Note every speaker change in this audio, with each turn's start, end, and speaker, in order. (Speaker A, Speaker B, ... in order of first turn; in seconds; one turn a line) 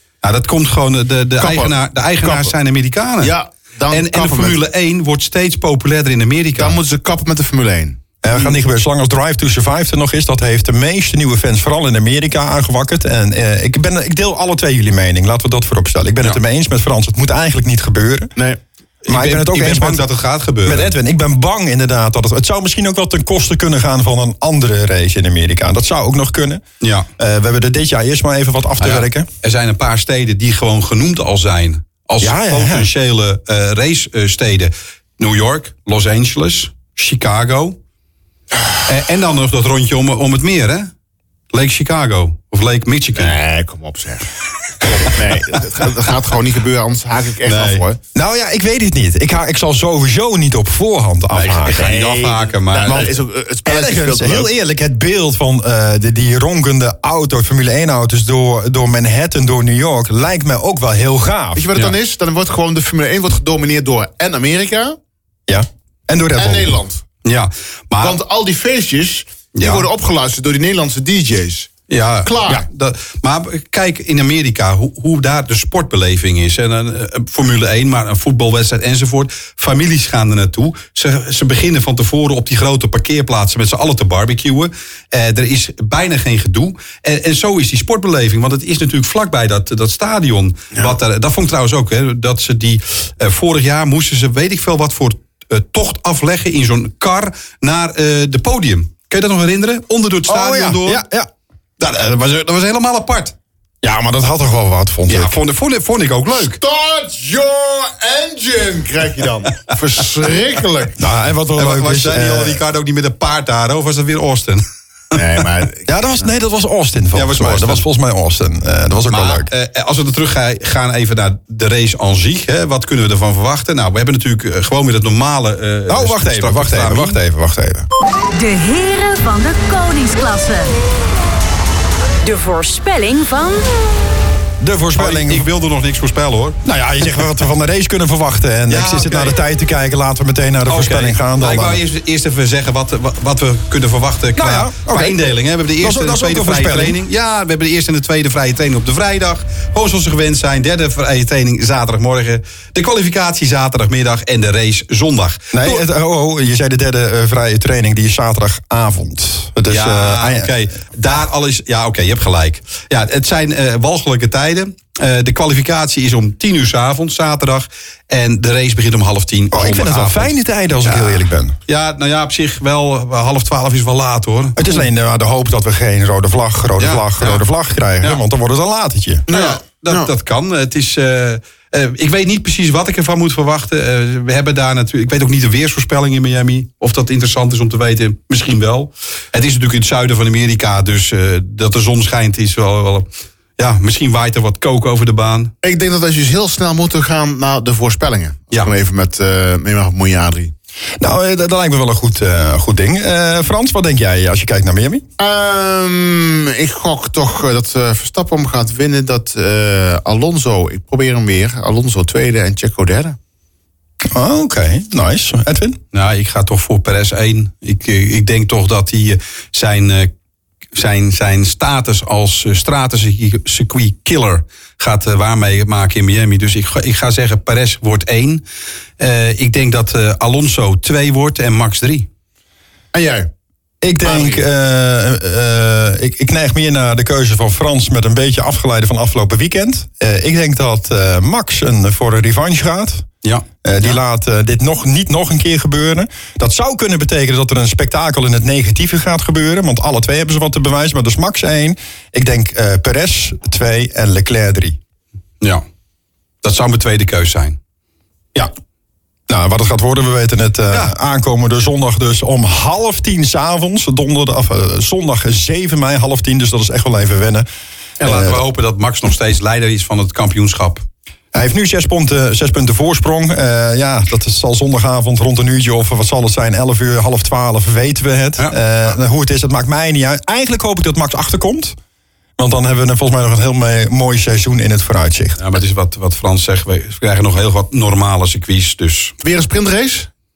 Speaker A: 0.2-3.3
Speaker B: 1.4-2.5
Speaker B: 3.2-4.6
Speaker A: 3.9-6.8
Speaker B: 6.6-8.5
Speaker C: 8.2-18.3
Speaker A: 19.0-20.9
Speaker C: 19.1-20.1
Speaker C: 20.6-26.6
Speaker A: 26.8-27.1
Speaker C: 27.2-29.3
Speaker A: 28.8-37.8
Speaker C: 32.2-32.9
Speaker A: 38.9-40.9
Speaker A: 41.5-43.3
Speaker B: 43.1-44.3
Speaker B: 44.8-48.0
Speaker A: 47.4-47.8
Speaker C: 48.1-51.9
Speaker A: 51.3-53.1
Speaker B: 51.7-54.5
Speaker C: 52.8-61.7
Speaker B: 61.5-65.0
Speaker C: 65.5-66.8
Speaker B: 66.4-67.0
Speaker A: 67.2-68.2
Speaker B: 68.0-71.7
Speaker A: 69.5-69.9
Speaker A: 71.9-101.0
Speaker B: 72.2-72.7
Speaker C: 100.3-101.3
Speaker A: 101.8-103.3
Speaker C: 103.8-105.4
Speaker A: 105.1-106.6
Speaker B: 106.3-111.0
Speaker C: 111.0-112.6
Speaker A: 111.5-115.2
Speaker B: 115.1-115.9
Speaker C: 115.9-119.5
Speaker A: 117.1-117.8
Speaker A: 119.1-127.2
Speaker C: 125.9-127.9
Speaker D: 128.3-130.7
Speaker D: 132.2-133.7
Speaker C: 134.6-135.5
Speaker A: 135.0-136.6
Speaker C: 136.6-141.8
Speaker A: 138.7-139.4
Speaker A: 140.7-155.8
Speaker C: 144.4-145.2
Speaker C: 145.8-147.0
Speaker C: 155.5-160.5
Speaker A: 159.7-174.8
Speaker C: 169.5-171.6
Speaker C: 174.6-179.3
Speaker A: 176.8-177.4
Speaker A: 179.3-193.1
Speaker B: 179.3-180.1
Speaker A: 193.6-195.5
Speaker B: 195.6-200.5
Speaker C: 201.0-205.0
Speaker B: 205.2-213.2
Speaker C: 214.1-215.8
Speaker A: 215.9-220.1
Speaker A: 220.7-228.4
Speaker A: 229.0-232.1
Speaker B: 232.9-233.3
Speaker C: 233.8-243.1
Speaker B: 234.0-234.4
Speaker A: 243.2-243.9
Speaker C: 243.6-254.8
Speaker A: 256.4-257.6
Speaker C: 259.3-267.5
Speaker A: 268.0-270.9
Speaker C: 268.0-268.4
Speaker C: 271.3-281.8
Speaker C: 282.4-285.4
Speaker A: 285.4-289.1
Speaker B: 289.2-290.1